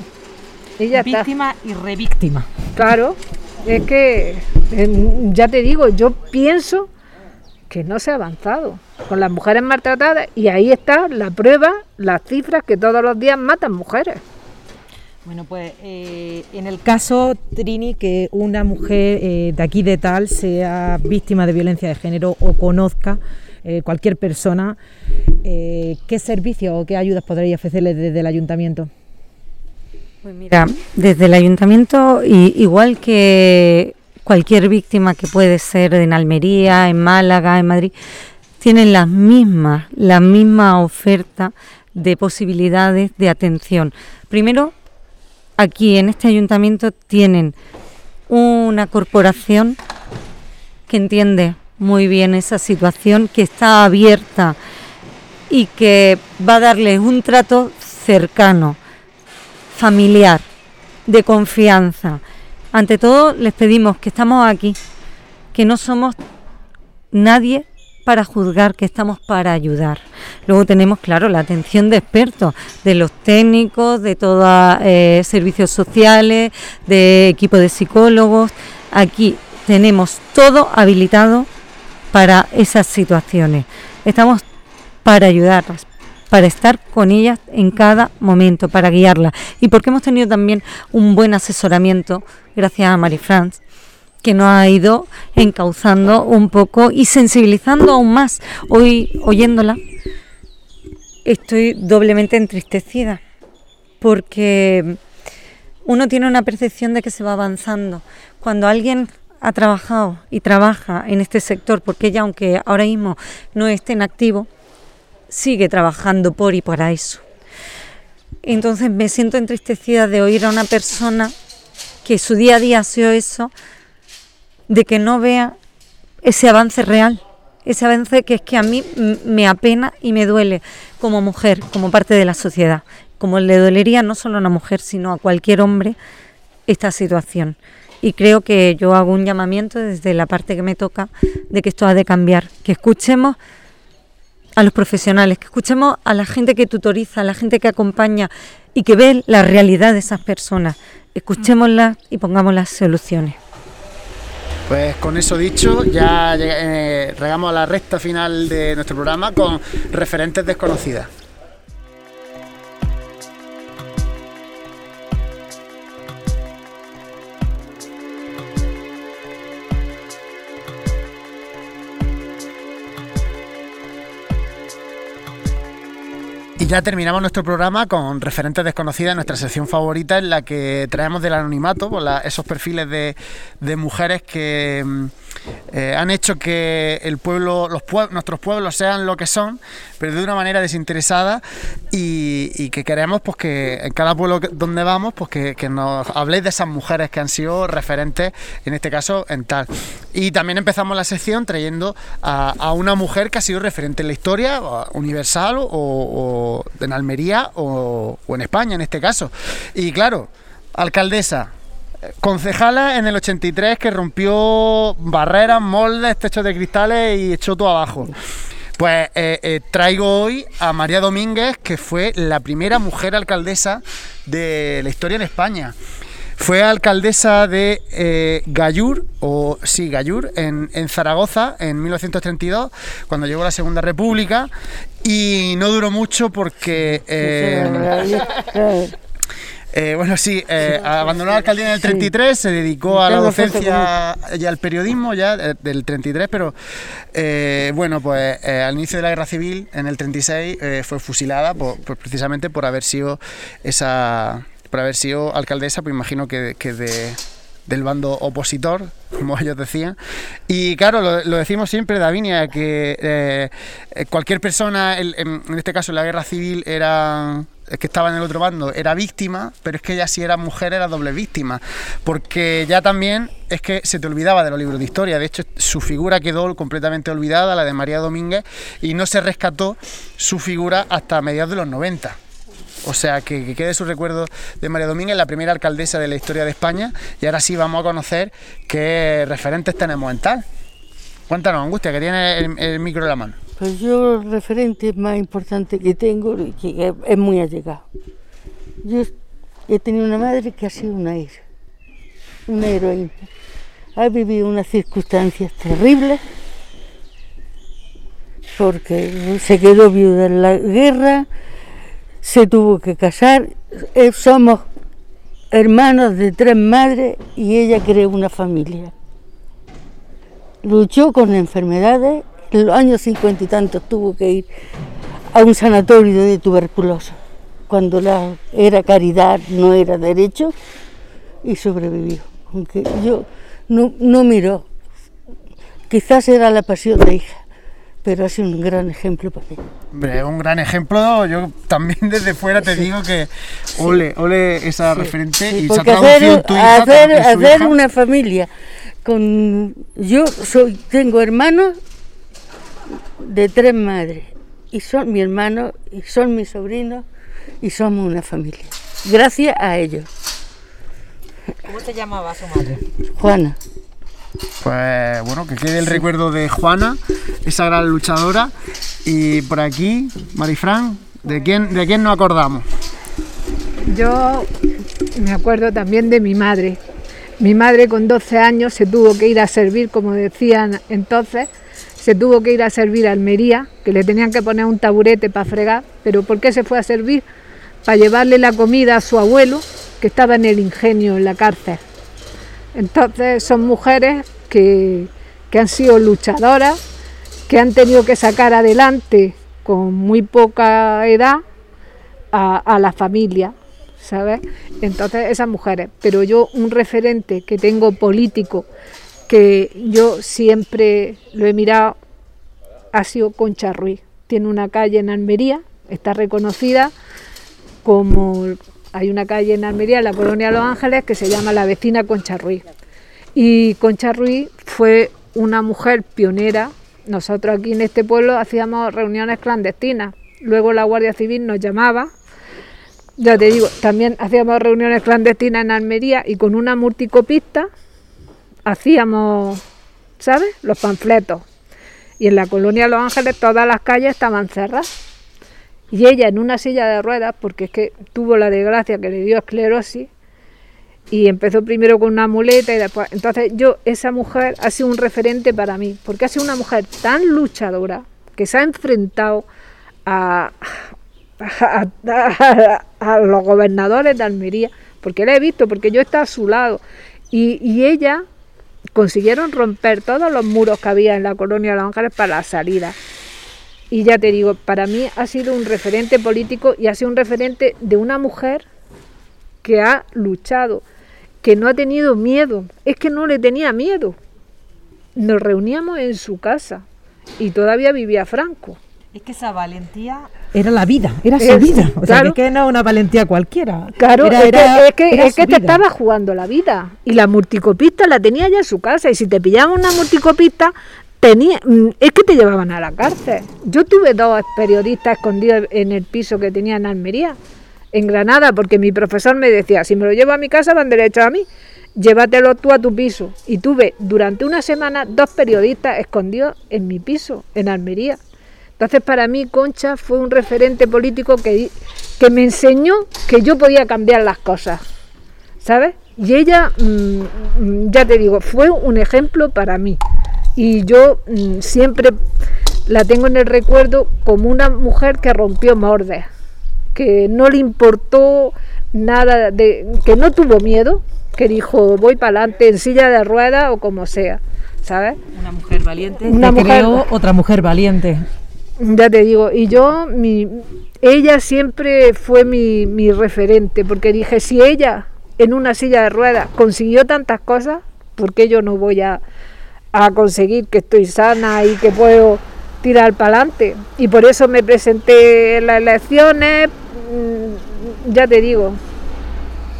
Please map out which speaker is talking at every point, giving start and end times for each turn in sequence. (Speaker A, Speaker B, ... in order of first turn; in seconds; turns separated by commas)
Speaker A: 0.8-1.3, Speaker B: 0.9-2.5, Speaker A: 2.8-6.9, Speaker A: 7.7-14.2, Speaker B: 15.2-24.8, Speaker B: 25.4-28.9, Speaker C: 30.2-37.9, Speaker C: 38.6-44.7, Speaker C: 45.6-47.5, Speaker C: 48.3-49.8, Speaker C: 50.9-54.6, Speaker C: 55.5-58.8, Speaker C: 59.7-60.4, Speaker C: 61.1-62.2, Speaker C: 62.7-64.8, Speaker C: 65.5-66.2, Speaker C: 67.1-81.5, Speaker C: 82.1-84.4, Speaker C: 85.0-93.6, Speaker C: 94.2-99.8, Speaker C: 101.2-103.2, Speaker C: 104.0-105.0, Speaker C: 105.8-114.5, Speaker C: 115.3-117.2, Speaker C: 118.4-121.3, Speaker C: 122.0-123.5, Speaker C: 124.7-125.5, Speaker C: 126.2-135.9, Speaker C: 136.7-143.4, Speaker C: 144.6-153.4, Speaker D: 154.7-161.1, Speaker D: 176.6-185.1, Speaker D: 185.7-211.5, Speaker D: 212.2-218.1, Speaker D: 218.8-225.7, Speaker D: 226.4-234.5, Speaker D: 235.0-238.2, Speaker E: 237.2-238.9, Speaker D: 239.7-246.5, Speaker E: 241.8-242.1, Speaker E: 242.9-243.9, Speaker D: 247.1-259.9, Speaker D: 260.5-282.2, Speaker D: 282.8-290.4, Speaker D: 291.3-293.4, Speaker E: 293.6-297.8, Speaker E: 298.8-299.1, Speaker E: 299.7-301.4, Speaker E: 302.4-303.3, Speaker E: 303.9-306.2, Speaker E: 308.5-311.3, Speaker E: 312.2-314.7, Speaker E: 315.5-318.9, Speaker E: 320.6-324.5, Speaker E: 325.3-330.5, Speaker E: 331.4-334.7, Speaker E: 335.9-337.4, Speaker E: 338.0-339.6, Speaker D: 339.9-347.7, Speaker E: 344.9-348.5, Speaker E: 349.0-351.8, Speaker E: 353.2-357.1, Speaker E: 357.6-360.1, Speaker B: 361.7-362.8, Speaker E: 363.1-363.6, Speaker D: 364.6-368.5, Speaker D: 369.0-372.6, Speaker A: 373.9-374.5, Speaker A: 375.1-376.8, Speaker A: 377.4-387.2, Speaker A: 387.8-391.8, Speaker A: 392.7-396.8, Speaker A: 397.5-401.4, Speaker A: 402.3-408.7, Speaker A: 409.3-412.0, Speaker A: 412.9-416.9, Speaker A: 417.8-422.6, Speaker A: 423.3-432.1, Speaker A: 433.2-437.7, Speaker A: 438.6-439.6, Speaker A: 440.2-441.4, Speaker A: 442.2-444.9, Speaker A: 445.9-450.1, Speaker A: 451.1-459.4, Speaker A: 460.1-468.2, Speaker A: 468.9-472.9, Speaker A: 473.9-478.6, Speaker A: 479.6-480.8, Speaker A: 481.4-484.2, Speaker A: 485.1-486.8, Speaker A: 487.4-488.8, Speaker B: 489.1-495.8, Speaker A: 491.4-492.4, Speaker A: 494.0-507.4, Speaker A: 507.9-518.2, Speaker A: 518.8-524.8, Speaker A: 525.6-530.0, Speaker A: 530.5-532.2, Speaker A: 532.9-536.3, Speaker A: 536.9-545.2, Speaker B: 545.3-548.2, Speaker A: 546.2-547.1, Speaker A: 548.8-559.2, Speaker A: 559.9-568.8